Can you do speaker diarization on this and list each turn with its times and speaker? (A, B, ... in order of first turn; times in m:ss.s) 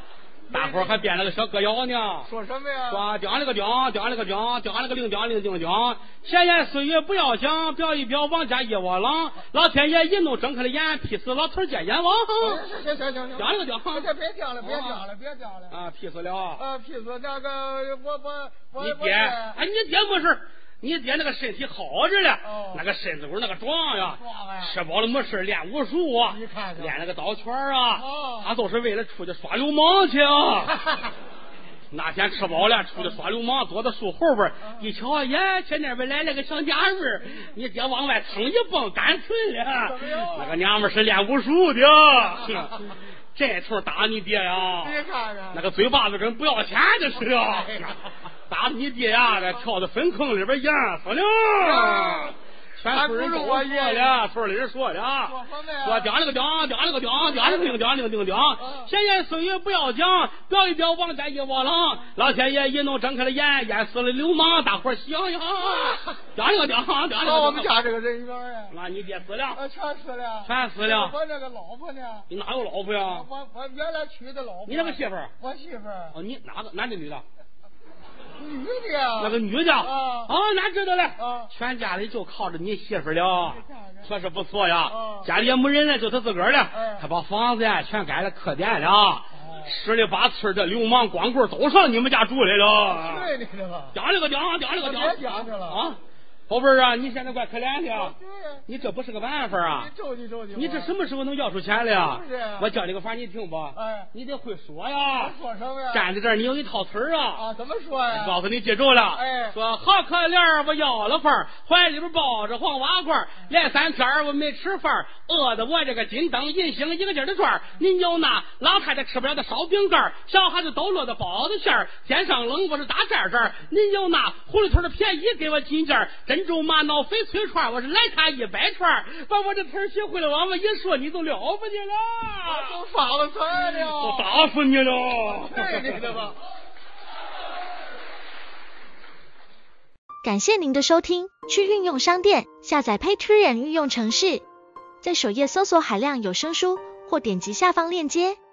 0:00.5-0:01.0 A
0:00.5-0:02.3 B
0:02.2-0:03.1 A
0:02.9-0:12.6 B
0:12.4-0:15.8 A
0:13.4-0:15.0 B
0:15.7-0:16.7 B
0:16.6-0:19.6 A
0:18.8-0:30.8 B
0:22.4-0:22.8 A
0:24.1-0:24.8 A
0:26.3-0:26.9 A
0:28.0-0:28.5 A
0:31.9-1:07.8 B
0:34.6-0:34.9 A
0:39.7-0:40.6 A
0:42.4-0:42.8 A
0:44.7-0:45.6 A
0:47.1-0:48.1 A
0:49.2-0:49.7 A
0:51.6-0:52.4 A
0:52.9-0:54.2 A
0:55.2-0:56.1 A
0:57.2-0:57.7 A
0:58.6-0:58.9 A
1:05.6-1:06.2 A
1:07.2-1:08.8 A
1:08.7-1:09.6 B
1:09.6-1:12.3 A
1:10.4-1:11.2 B
1:12.3-1:13.3 B
1:13.1-1:16.2 A
1:14.7-1:15.3 B
1:16.1-1:17.2 B
1:18.4-1:20.3 A
1:19.2-1:33.3 B
1:21.2-1:21.5 A
1:23.5-1:24.1 A
1:24.9-1:25.3 A
1:26.7-1:27.1 A
1:29.3-1:29.8 A
1:32.9-1:34.0 A
1:33.9-1:38.2 B
1:34.8-1:35.8 A
1:37.9-1:38.7 A
1:38.7-1:39.9 B
1:39.7-1:40.9 A
1:40.5-1:45.4 B
1:41.9-1:42.7 A
1:43.8-1:44.1 A
1:45.2-1:46.1 A
1:45.9-1:47.5 B
1:47.4-1:48.4 A
1:48.1-2:12.8 B
1:49.1-1:49.6 A
2:12.4-2:14.3 A
2:13.6-2:16.2 B
2:15.2-2:16.4 A
2:20.2-2:24.4 C
2:25.0-2:28.4 C